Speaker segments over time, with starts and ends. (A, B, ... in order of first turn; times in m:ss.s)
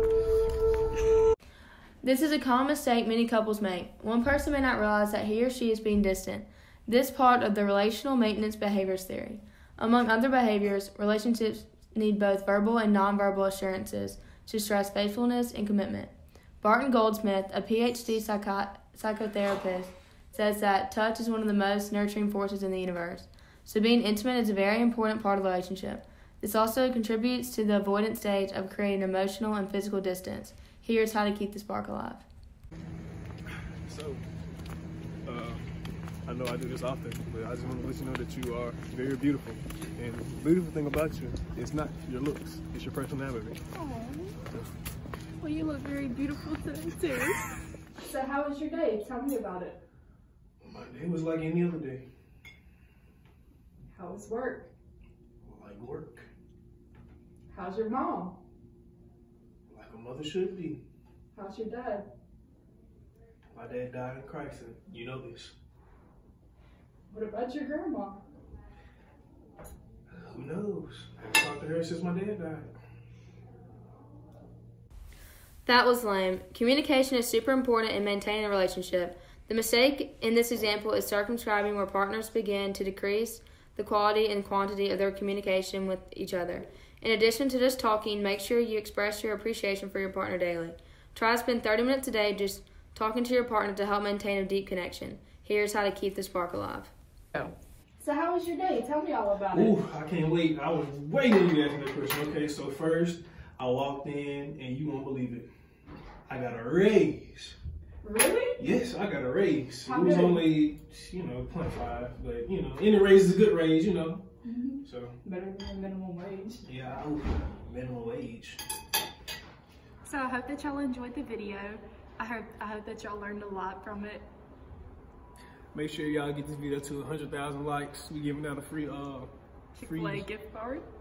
0:02.0-0:32.3 A
0:33.7-0:34.3 B
0:35.2-0:35.7 B
0:36.2-0:43.6 B
0:43.7-0:44.4 C
0:45.4-0:47.5 C
0:48.0-0:49.8 C
0:50.6-0:52.1 B
0:53.9-0:54.7 C
0:55.4-0:56.3 B
0:57.5-0:58.4 C
0:59.7-1:00.8 B
1:01.3-1:02.1 C
1:03.5-1:05.6 B
1:07.1-1:08.2 C
1:10.1-1:12.7 B
1:15.6-1:36.9 A
1:38.0-1:39.8 C
1:39.5-1:45.5 B
1:46.3-1:47.6 B
1:48.0-1:48.6 C
1:48.6-1:54.2 B
1:49.8-1:50.4 C
1:54.4-1:56.6 C
1:54.8-1:55.2 B
1:56.6-1:58.6 B
2:00.0-2:04.3 C
2:05.7-2:09.3 B
2:09.8-2:10.9 C
2:09.8-2:10.3 B